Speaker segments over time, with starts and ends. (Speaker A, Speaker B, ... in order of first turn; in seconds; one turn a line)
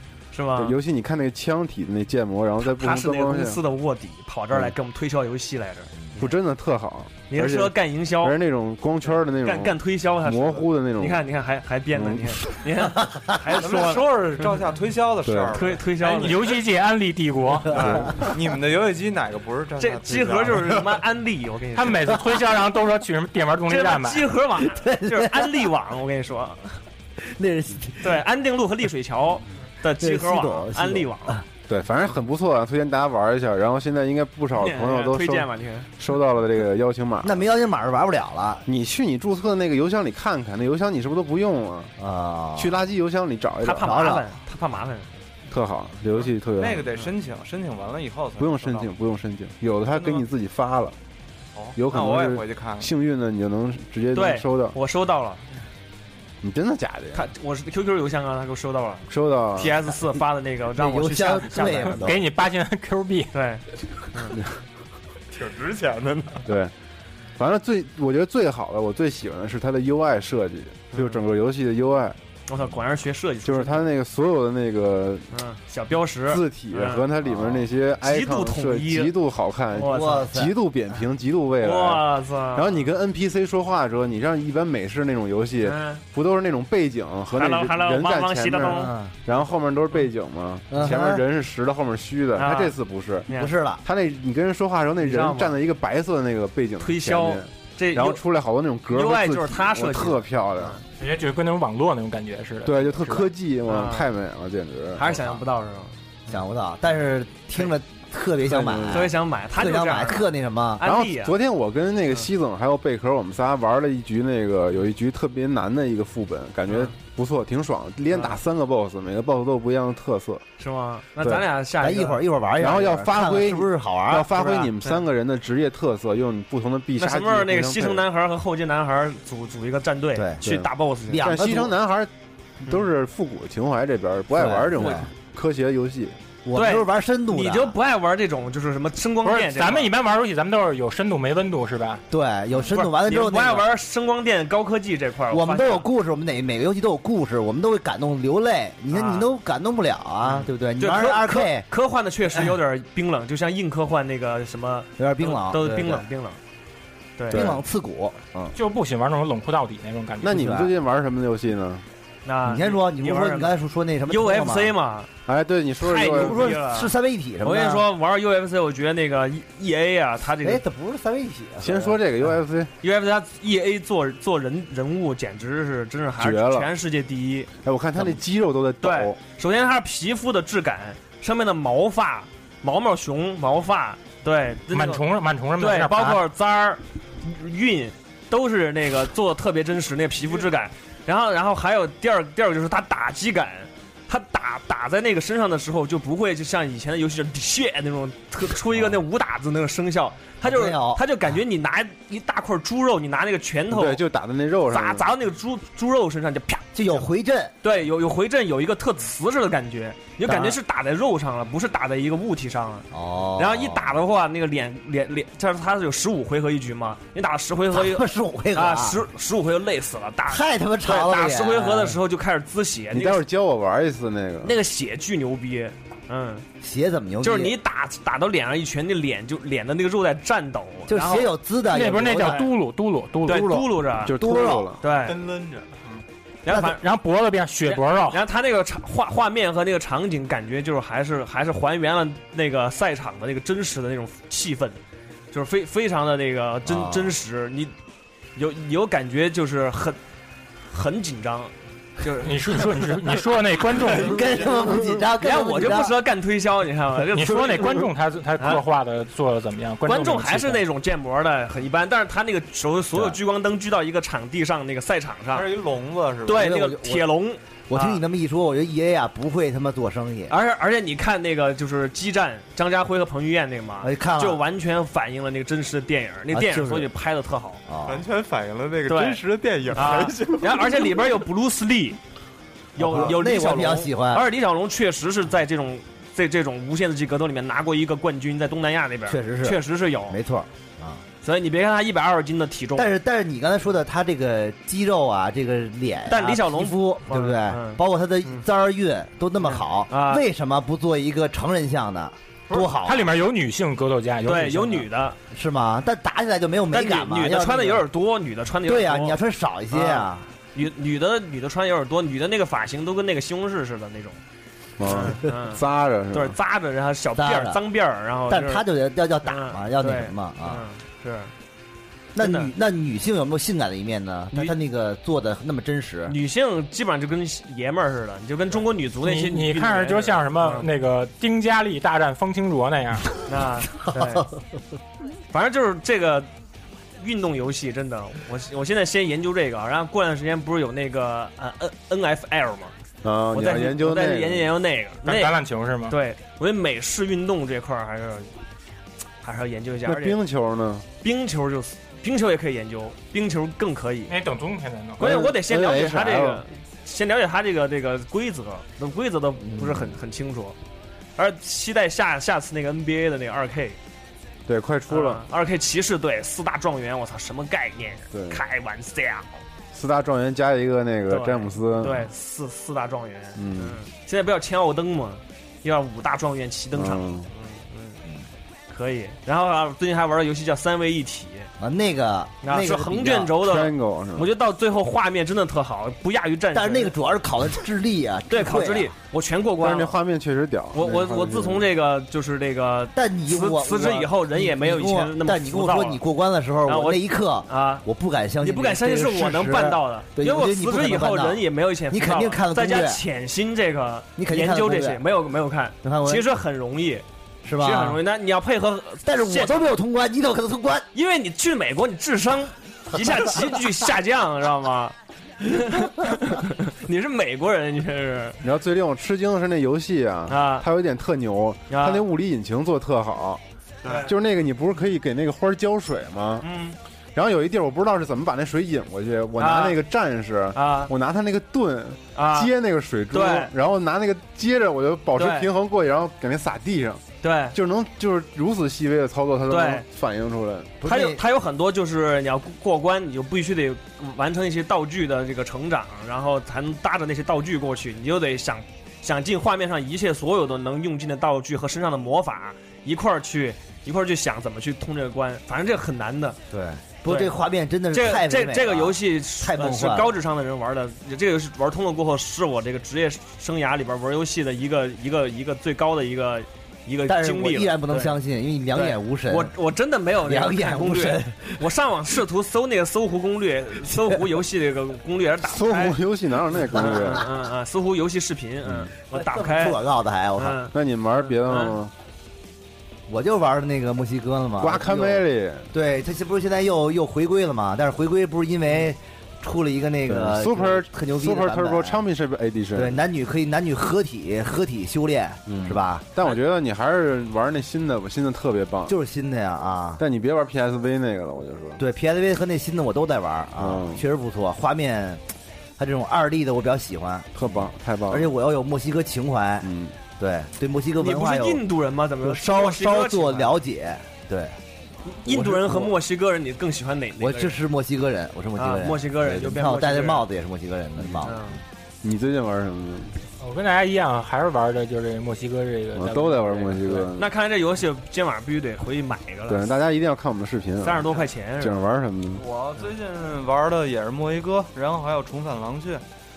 Speaker A: 0.3-0.8
Speaker B: 0.6-3.6
Speaker A: 2.6-6.3
Speaker B: 6.2-11.2
Speaker A: 7.3-8.4
Speaker A: 9.1-14.6
Speaker B: 11.9-12.4
Speaker C: 13.6-16.4
Speaker B: 15.2-15.6
Speaker A: 15.5-16.6
Speaker D: 16.0-17.8
Speaker C: 17.7-21.0
Speaker A: 19.8-22.2
Speaker D: 21.7-24.3
Speaker A: 23.7-26.7
Speaker E: 24.6-25.7
Speaker E: 27.2-28.2
Speaker A: 28.0-31.4
Speaker E: 30.0-31.4
Speaker B: 31.7-37.4
Speaker A: 34.5-35.9
Speaker E: 37.2-38.6
Speaker B: 38.6-41.9
Speaker E: 42.0-42.8
Speaker B: 42.5-44.1
Speaker A: 43.6-45.1
Speaker E: 43.8-44.2
Speaker B: 45.5-46.9
Speaker C: 46.5-48.9
Speaker B: 48.4-51.0
Speaker C: 49.9-50.2
Speaker C: 51.5-52.9
Speaker B: 51.8-54.8
Speaker A: 54.1-55.4
Speaker B: 56.4-57.2
Speaker A: 57.1-62.1
Speaker B: 59.1-59.8
Speaker E: 60.7-62.2
Speaker D: 62.0-63.3
Speaker A: 63.3-63.6
Speaker C: 65.3-66.5
Speaker B: 66.5-66.7
Speaker B: 67.4-72.2
Speaker A: 70.9-71.2
Speaker A: 72.5-73.8
Speaker B: 73.4-75.2
Speaker A: 75.3-77.1
Speaker B: 76.3-93.3
Speaker E: 77.2-77.6
Speaker A: 78.0-79.1
Speaker A: 79.7-80.3
Speaker E: 79.8-80.9
Speaker A: 81.6-82.9
Speaker A: 85.6-86.0
Speaker A: 87.3-88.9
Speaker E: 88.6-89.1
Speaker E: 90.7-91.2
Speaker A: 92.3-92.8
Speaker A: 93.3-93.5
Speaker E: 93.3-93.8
Speaker B: 93.8-100.8
Speaker A: 95.0-95.6
Speaker A: 96.8-98.2
Speaker A: 98.9-100.8
Speaker D: 101.0-103.3
Speaker B: 102.6-105.2
Speaker A: 103.7-104.1
Speaker A: 105.0-105.9
Speaker E: 106.3-110.8
Speaker B: 108.5-109.1
Speaker A: 108.9-111.3
Speaker B: 110.8-120.4
Speaker A: 116.7-116.9
Speaker A: 118.1-118.4
Speaker A: 120.6-122.3
Speaker B: 121.2-121.5
Speaker E: 121.8-124.5
Speaker B: 122.6-128.1
Speaker A: 124.3-125.0
Speaker A: 127.0-131.4
Speaker E: 130.1-130.4
Speaker B: 130.4-136.2
Speaker E: 131.0-131.7
Speaker E: 134.3-135.1
Speaker A: 134.8-135.0
Speaker E: 136.4-137.7
Speaker A: 136.5-139.9
Speaker D: 139.2-142.0
Speaker E: 142.1-143.7
Speaker A: 142.5-145.9
Speaker E: 145.3-151.7
Speaker A: 148.9-149.3
Speaker A: 150.2-156.4
Speaker E: 155.0-156.1
Speaker A: 157.2-157.5
Speaker B: 157.3-157.6
Speaker E: 157.3-158.5
Speaker D: 158.5-160.4
Speaker B: 160.2-161.8
Speaker E: 160.2-160.7
Speaker A: 162.2-163.5
Speaker E: 162.4-164.7
Speaker A: 164.1-165.1
Speaker B: 165.3-166.6
Speaker A: 165.8-166.9
Speaker E: 166.0-167.9
Speaker A: 167.4-170.6
Speaker E: 170.4-172.3
Speaker B: 171.6-172.7
Speaker A: 172.8-178.2
Speaker B: 176.2-176.7
Speaker B: 177.6-179.2
Speaker A: 178.8-185.0
Speaker D: 184.7-186.2
Speaker A: 185.6-204.0
Speaker E: 200.4-201.1
Speaker B: 203.7-205.1
Speaker A: 204.7-207.1
Speaker E: 206.7-207.5
Speaker A: 207.6-223.2
Speaker E: 210.2-210.6
Speaker E: 212.9-213.9
Speaker E: 217.7-219.0
Speaker E: 220.3-222.0
Speaker B: 222.9-224.5
Speaker A: 224.4-226.4
Speaker E: 226.6-227.6
Speaker A: 227.2-231.3
Speaker E: 230.9-232.5
Speaker D: 231.7-233.5
Speaker A: 232.0-232.5
Speaker E: 233.2-234.7
Speaker A: 233.2-235.2
Speaker B: 234.0-234.8
Speaker C: 235.0-235.7
Speaker A: 236.4-236.8
Speaker D: 236.5-238.2
Speaker A: 237.7-244.8
Speaker A: 245.3-247.7
Speaker E: 246.7-247.2
Speaker A: 248.3-250.0
Speaker A: 250.7-253.0
Speaker D: 252.2-254.2
Speaker E: 253.8-256.0
Speaker A: 255.1-257.9
Speaker D: 257.1-260.6
Speaker A: 259.8-265.5
Speaker C: 265.3-266.5
Speaker A: 266.2-268.0
Speaker E: 266.4-267.1
Speaker E: 267.7-270.3
Speaker A: 270.3-277.6
Speaker E: 273.8-274.4
Speaker E: 276.3-276.9
Speaker E: 277.7-278.0
Speaker C: 277.8-281.0
Speaker A: 278.9-282.0
Speaker A: 282.8-290.2
Speaker E: 282.8-284.3
Speaker E: 289.1-291.0
Speaker A: 291.2-292.9
Speaker E: 292.8-303.1
Speaker A: 296.1-298.4
Speaker A: 299.4-300.2
Speaker D: 302.7-304.9
Speaker A: 304.2-305.2
Speaker E: 305.3-307.9
Speaker A: 306.7-309.2
Speaker E: 308.6-310.3
Speaker A: 309.7-314.2
Speaker B: 314.8-316.4
Speaker A: 314.8-318.6
Speaker E: 317.1-317.6
Speaker E: 318.3-320.6
Speaker A: 319.2-321.3
Speaker E: 322.1-326.2
Speaker A: 322.2-322.5
Speaker A: 326.1-330.7
Speaker D: 329.0-333.1
Speaker A: 333.2-334.3
Speaker A: 335.3-336.3
Speaker A: 337.0-342.7
Speaker B: 343.0-344.5
Speaker A: 343.3-348.3
Speaker D: 345.0-345.9
Speaker A: 349.2-350.2
Speaker B: 349.8-350.9
Speaker A: 351.0-354.1
Speaker D: 354.1-355.0
Speaker A: 355.0-360.6
Speaker B: 355.0-356.4
Speaker E: 359.6-359.9
Speaker A: 361.2-363.8
Speaker B: 364.5-365.2
Speaker A: 364.9-369.4
Speaker B: 368.1-368.4
Speaker B: 369.7-372.1
Speaker A: 371.1-378.0
Speaker B: 373.4-373.8
Speaker B: 376.7-377.3
Speaker A: 378.7-381.5
Speaker E: 381.6-383.4
Speaker A: 382.4-386.9
Speaker B: 383.4-384.3
Speaker E: 386.5-388.9
Speaker A: 388.3-389.9
Speaker B: 389.6-391.6
Speaker A: 390.7-396.0
Speaker E: 392.9-403.0
Speaker A: 396.6-397.8
Speaker A: 398.4-407.0
Speaker E: 404.2-405.0
Speaker E: 405.8-406.3
Speaker E: 407.4-408.0
Speaker A: 407.6-409.6
Speaker E: 409.0-410.9
Speaker A: 410.9-418.4
Speaker B: 418.4-423.4
Speaker A: 420.3-420.6
Speaker A: 421.7-422.0
Speaker A: 423.8-424.1
Speaker B: 424.0-426.4
Speaker A: 426.4-426.8
Speaker B: 427.1-437.0
Speaker A: 429.4-429.8
Speaker A: 430.5-430.9
Speaker A: 432.1-432.5
Speaker A: 433.1-433.5
Speaker A: 435.1-435.5
Speaker A: 437.2-437.6
Speaker B: 437.5-440.8
Speaker A: 439.5-439.9
Speaker E: 440.8-441.2
Speaker A: 440.8-456.4
Speaker E: 456.5-460.2
Speaker A: 457.0-457.3
Speaker A: 457.9-468.2
Speaker E: 467.1-469.5
Speaker A: 468.7-476.0
Speaker E: 470.2-471.7
Speaker B: 475.4-477.3
Speaker A: 476.6-479.8
Speaker E: 476.8-477.1
Speaker E: 479.1-480.6
Speaker A: 480.4-481.8
Speaker B: 480.7-481.9
Speaker E: 483.1-492.0
Speaker B: 484.6-485.7
Speaker B: 490.1-493.0
Speaker E: 492.7-496.0
Speaker B: 495.5-498.9
Speaker E: 498.9-500.0
Speaker B: 500.0-501.8
Speaker E: 501.8-505.2
Speaker B: 503.6-504.0
Speaker E: 505.8-511.6
Speaker B: 507.3-508.3
Speaker B: 509.6-509.9
Speaker A: 511.0-513.5
Speaker E: 512.2-514.6
Speaker A: 515.1-517.5
Speaker E: 515.2-515.9
Speaker E: 517.2-521.6
Speaker A: 518.5-520.3
Speaker B: 521.0-521.2
Speaker A: 521.2-521.6
Speaker B: 522.0-523.1
Speaker D: 523.4-527.1
Speaker B: 525.9-527.3
Speaker A: 527.2-529.8
Speaker B: 529.5-532.4
Speaker A: 530.8-531.9
Speaker C: 532.3-536.0